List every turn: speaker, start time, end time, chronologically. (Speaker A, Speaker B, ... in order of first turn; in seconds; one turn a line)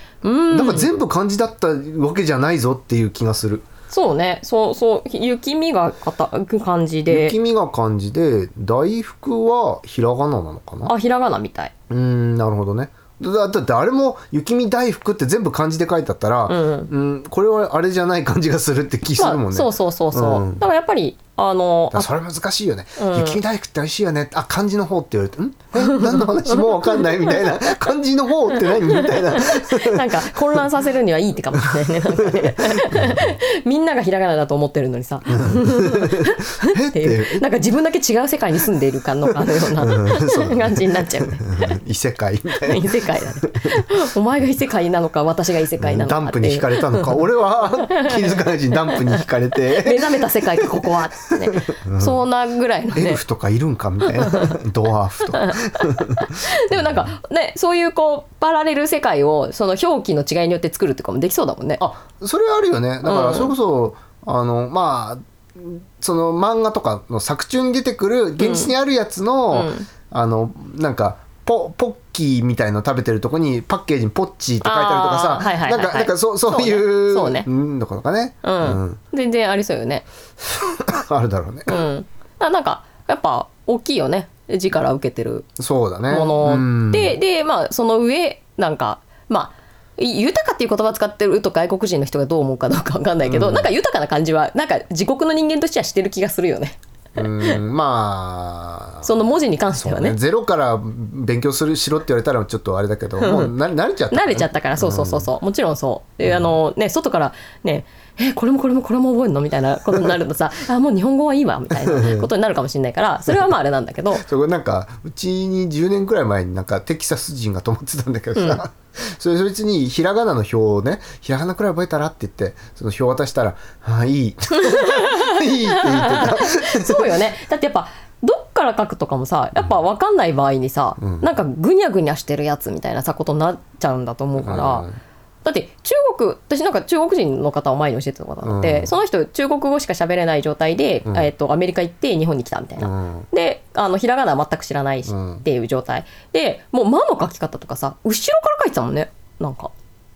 Speaker A: 0.2-0.9
Speaker B: 0.5-3.6
Speaker A: 3.9-7.3
Speaker B: 7.1-10.9
Speaker A: 10.8-11.7
Speaker B: 11.9-20.6
Speaker A: 16.5-16.9
Speaker A: 19.2-22.1
Speaker B: 21.9-30.7
Speaker A: 23.0-23.4
Speaker A: 25.8-27.4
Speaker A: 28.6-41.8
Speaker B: 31.5-33.4
Speaker B: 35.3-37.4
Speaker B: 39.4-43.8
Speaker A: 42.6-47.2
Speaker B: 45.8-50.9
Speaker A: 47.8-48.3
Speaker A: 48.9-49.1
Speaker A: 49.7-53.2
Speaker B: 51.5-52.2
Speaker B: 52.9-57.1
Speaker A: 54.1-54.5
Speaker A: 55.3-61.8
Speaker B: 61.8-79.0
Speaker A: 63.0-63.5
Speaker A: 68.4-68.7
Speaker A: 69.5-69.9
Speaker A: 74.6-77.5
Speaker A: 78.4-80.0
Speaker B: 80.4-81.8
Speaker A: 81.7-85.5
Speaker B: 85.6-87.2
Speaker A: 86.1-97.6
Speaker B: 93.2-93.7
Speaker B: 97.1-105.3
Speaker A: 99.0-100.2
Speaker A: 103.2-103.5
Speaker A: 104.1-114.2
Speaker B: 106.2-106.5
Speaker B: 111.8-112.3
Speaker B: 113.3-113.5
Speaker B: 114.1-127.2
Speaker A: 118.3-118.6
Speaker A: 124.5-134.9
Speaker B: 131.0-131.3
Speaker B: 134.4-134.9
Speaker A: 135.4-149.7
Speaker B: 138.4-138.9
Speaker B: 142.8-143.3
Speaker B: 145.1-145.4